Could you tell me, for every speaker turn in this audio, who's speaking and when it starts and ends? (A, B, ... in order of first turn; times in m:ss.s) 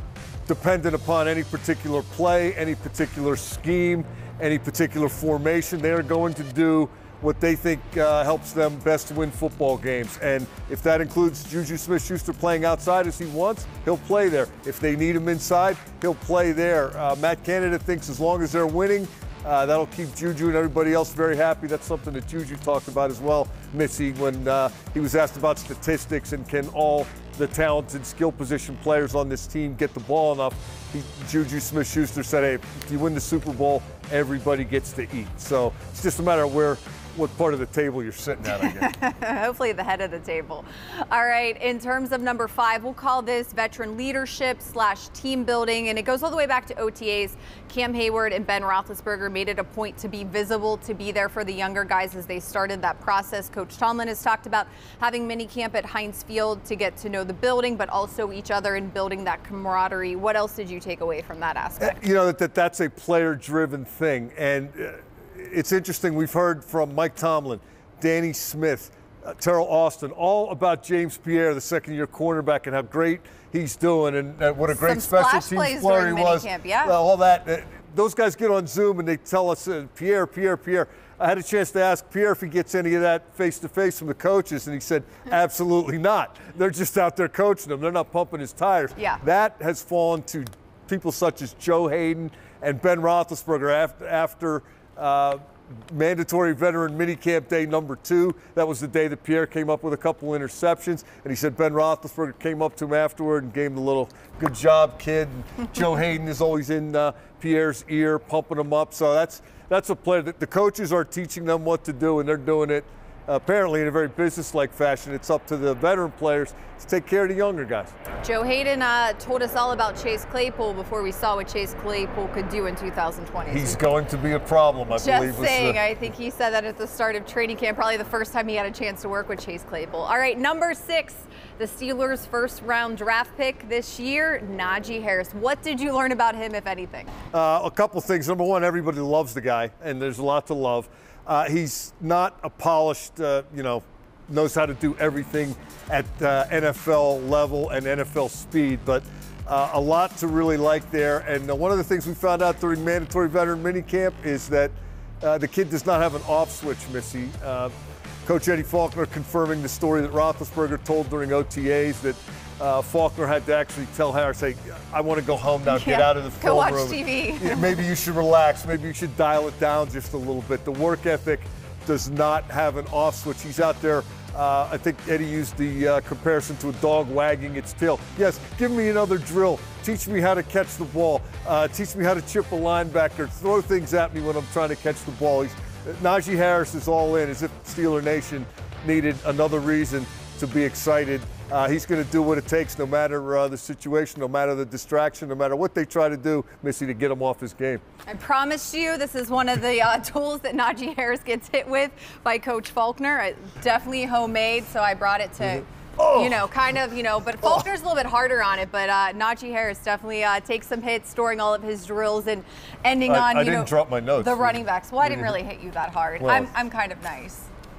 0:00.5-0:38.9 A
0:38.6-1:02.0 B
1:01.8-1:58.0 A
1:14.7-1:17.0 B
1:58.2-2:03.8 B
2:03.5-2:05.8 A
2:04.9-2:17.1 B
2:17.3-2:37.7 A
2:38.2-3:17.8 A
2:45.6-2:47.8 B
3:18.1-3:37.5 B
3:26.0-3:26.5 A
3:33.1-3:35.4 A
3:36.2-3:36.5 A